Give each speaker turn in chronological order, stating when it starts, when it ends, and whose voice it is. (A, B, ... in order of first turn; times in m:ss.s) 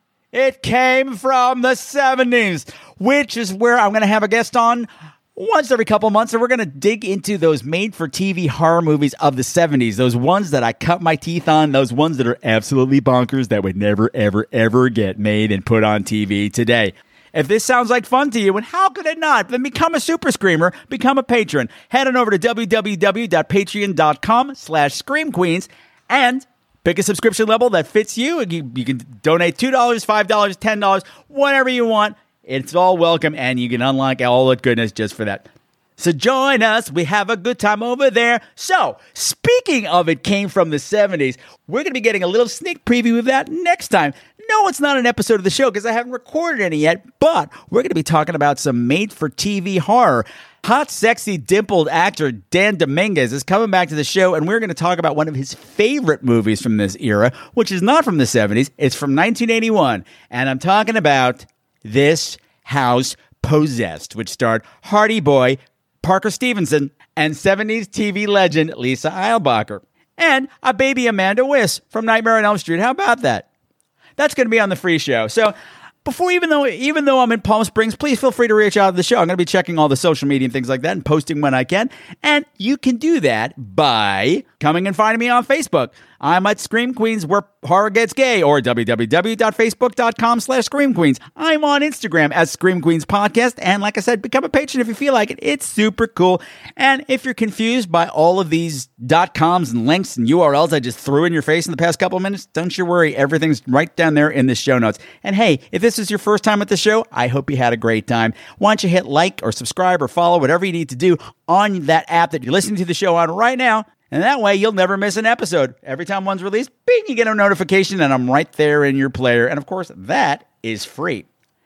0:00.3-1:13.5 A
1:14.2-2:01.2 A